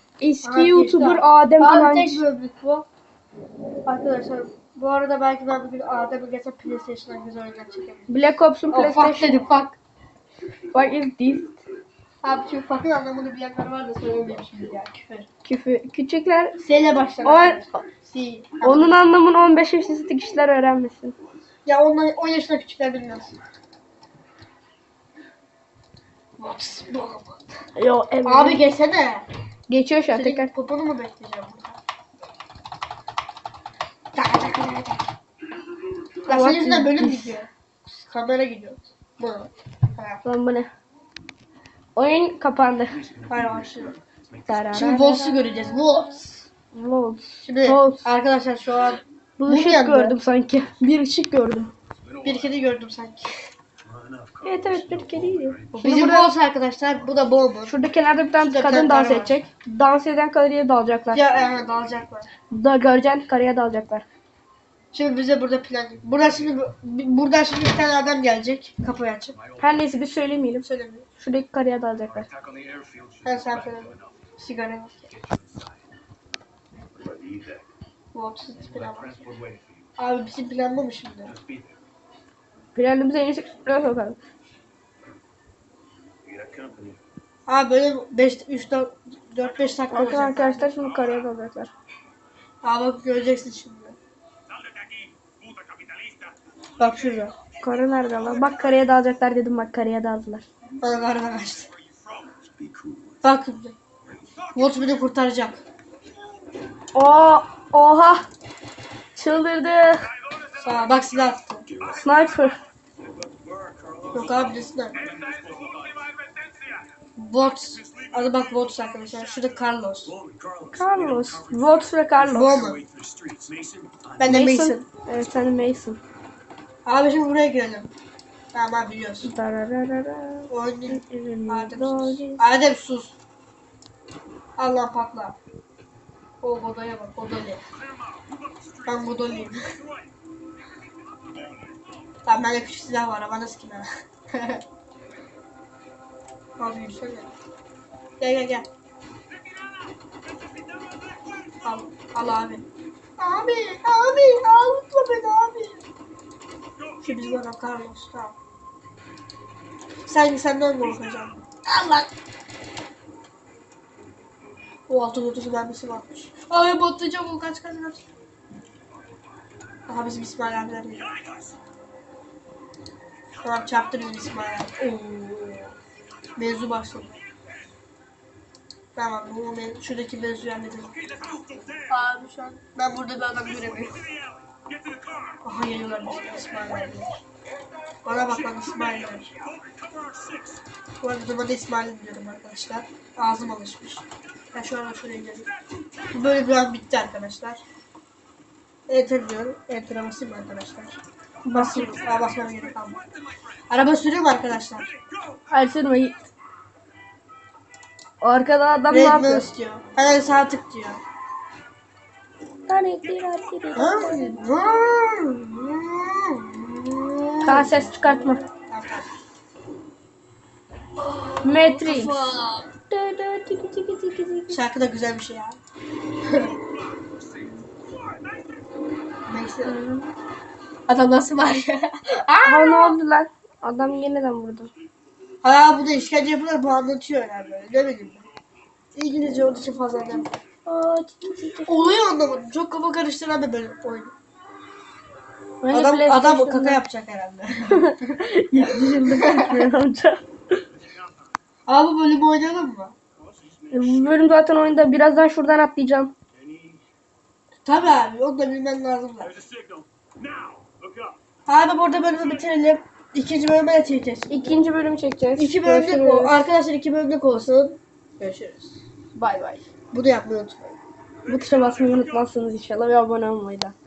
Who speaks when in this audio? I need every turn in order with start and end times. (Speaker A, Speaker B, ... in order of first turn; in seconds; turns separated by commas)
Speaker A: 0.2-2.2, Speaker B: 0.4-2.9, Speaker B: 3.9-9.8, Speaker A: 8.1-9.3, Speaker A: 10.7-11.6, Speaker B: 12.2-15.3, Speaker A: 15.4-16.6, Speaker B: 16.6-19.0, Speaker A: 17.2-17.8, Speaker A: 18.6-21.2, Speaker B: 21.6-23.4, Speaker B: 26.4-27.5, Speaker A: 27.8-28.6, Speaker B: 28.2-29.3, Speaker A: 29.7-30.5, Speaker B: 30.1-31.8, Speaker B: 34.1-35.1, Speaker B: 36.2-40.2, Speaker A: 36.3-37.4, Speaker A: 40.2-40.7, Speaker A: 42.0-43.0, Speaker B: 43.3-44.0, Speaker A: 44.5-46.0, Speaker B: 44.7-46.5, Speaker A: 46.7-48.0, Speaker B: 47.4-50.2, Speaker A: 49.4-51.7, Speaker B: 52.2-53.3, Speaker C: 54.1-54.4, Speaker A: 54.4-56.3, Speaker B: 55.7-57.8, Speaker A: 57.7-61.2, Speaker B: 58.4-59.4, Speaker B: 61.1-62.3, Speaker A: 62.5-64.0, Speaker B: 64.9-69.4, Speaker A: 69.6-70.7, Speaker B: 70.6-71.1, Speaker A: 71.2-72.3, Speaker C: 72.5-73.2, Speaker B: 73.2-75.1, Speaker C: 77.1-77.6, Speaker B: 78.1-79.3, Speaker B: 80.0-81.3, Speaker A: 82.8-84.2, Speaker C: 86.4-87.0, Speaker B: 87.5-90.7, Speaker A: 89.9-91.7, Speaker B: 92.6-94.0, Speaker B: 96.8-97.4, Speaker A: 97.6-100.5, Speaker B: 100.8-101.7, Speaker C: 102.6-103.0, Speaker B: 103.2-103.8, Speaker B: 104.5-105.6, Speaker A: 107.0-108.3, Speaker A: 109.2-110.1, Speaker B: 110.5-111.7, Speaker A: 111.8-112.6, Speaker B: 114.1-115.0, Speaker C: 115.3-115.7, Speaker B: 117.2-120.2, Speaker A: 120.7-122.6, Speaker B: 122.3-122.8, Speaker C: 123.1-124.0, Speaker B: 124.2-124.8, Speaker A: 124.3-126.0, Speaker B: 126.8-127.9, Speaker B: 128.5-129.3, Speaker A: 129.2-132.4, Speaker B: 130.5-133.2, Speaker B: 134.6-135.4, Speaker B: 136.4-137.6, Speaker B: 138.8-139.8, Speaker B: 142.3-144.6, Speaker B: 146.6-147.3, Speaker B: 148.2-148.7, Speaker B: 151.6-152.7, Speaker B: 153.2-155.8, Speaker B: 157.0-158.4, Speaker B: 160.1-162.1, Speaker B: 164.9-168.0, Speaker B: 169.9-171.2, Speaker B: 173.4-175.8, Speaker B: 176.4-177.2, Speaker B: 178.9-181.0, Speaker B: 181.8-184.1, Speaker B: 185.4-187.2, Speaker B: 188.1-189.3, Speaker B: 191.0-195.5, Speaker B: 196.1-197.6, Speaker B: 198.9-201.0, Speaker A: 201.5-202.0, Speaker B: 201.5-203.0, Speaker B: 203.7-204.9, Speaker A: 205.5-206.2, Speaker A: 208.2-209.5, Speaker B: 208.9-211.0, Speaker A: 212.7-214.4, Speaker B: 213.7-219.1, Speaker A: 217.4-218.4, Speaker B: 221.0-222.7, Speaker A: 221.4-224.6, Speaker B: 224.5-225.6, Speaker B: 226.2-226.6, Speaker B: 229.3-229.8, Speaker A: 229.6-230.2, Speaker B: 230.9-233.0, Speaker A: 232.4-234.7, Speaker B: 235.4-238.3, Speaker B: 238.9-240.3, Speaker A: 240.7-241.8, Speaker B: 241.7-244.1, Speaker A: 245.6-246.8, Speaker B: 245.7-247.8, Speaker A: 247.7-250.2, Speaker B: 249.1-249.6, Speaker B: 251.7-252.9, Speaker A: 253.7-256.1, Speaker B: 257.6-259.4, Speaker B: 261.5-264.6, Speaker A: 264.3-266.3, Speaker B: 265.4-268.8, Speaker A: 269.1-269.6, Speaker B: 269.9-270.8, Speaker A: 271.3-273.7